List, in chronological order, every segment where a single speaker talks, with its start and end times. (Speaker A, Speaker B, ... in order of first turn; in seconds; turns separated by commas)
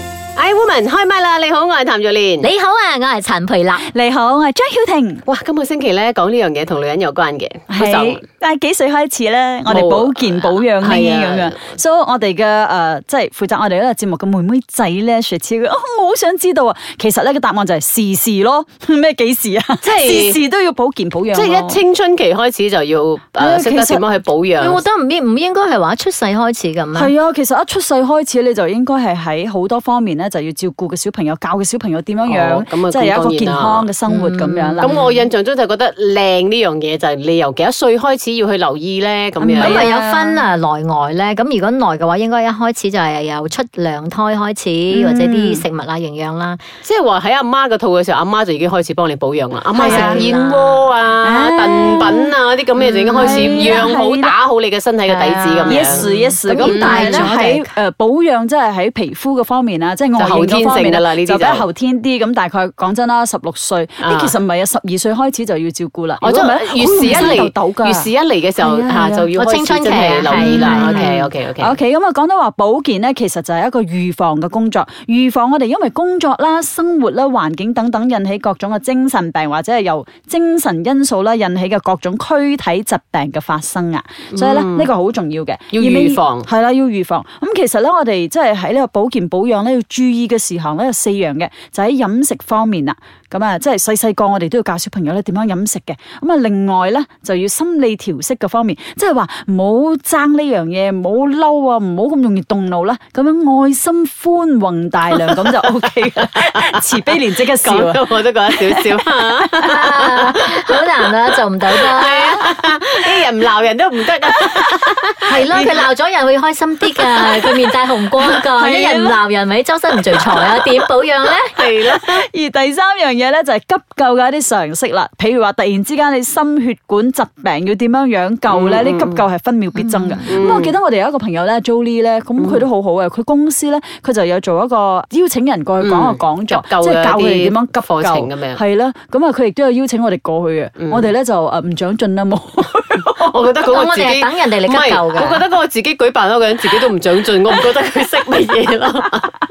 Speaker A: 0.4-2.5, Speaker B: 2.4-3.8, Speaker C: 3.9-5.2, Speaker A: 5.3-8.2, Speaker C: 7.7-21.8, Speaker A: 9.7-11.7, Speaker A: 19.8-20.4, Speaker A: 21.3-24.8, Speaker C: 23.4-24.0, Speaker B: 24.6-27.1, Speaker C: 26.9-35.0, Speaker A: 32.2-33.9, Speaker B: 34.1-35.3, Speaker A: 34.8-39.9, Speaker C: 39.4-40.4, Speaker B: 39.6-46.6, Speaker C: 44.9-45.6, Speaker A: 46.8-57.4, Speaker B: 49.8-50.9, Speaker C: 49.8-50.2, Speaker C: 51.2-52.3, Speaker B: 52.8-53.9, Speaker C: 53.1-54.4, Speaker B: 55.1-57.7, Speaker C: 55.7-69.3, Speaker A: 60.2-61.6, Speaker A: 64.0-64.4, Speaker A: 66.2-71.8, Speaker B: 69.3-71.2, Speaker C: 70.3-109.5, Speaker A: 84.3-84.9, Speaker A: 85.7-86.5, Speaker A: 105.2-105.5, Speaker A: 107.6-110.5, Speaker B: 109.6-112.5, Speaker A: 111.7-115.2, Speaker B: 115.3-121.5, Speaker C: 115.5-115.8, Speaker C: 118.3-119.2, Speaker A: 121.5-122.3, Speaker C: 121.9-143.6, Speaker A: 128.5-129.2, Speaker B: 129.8-130.3, Speaker A: 130.3-130.8, Speaker A: 132.4-132.7, Speaker A: 135.8-138.6, Speaker A: 140.8-141.1, Speaker A: 143.2-149.3, Speaker B: 143.7-145.4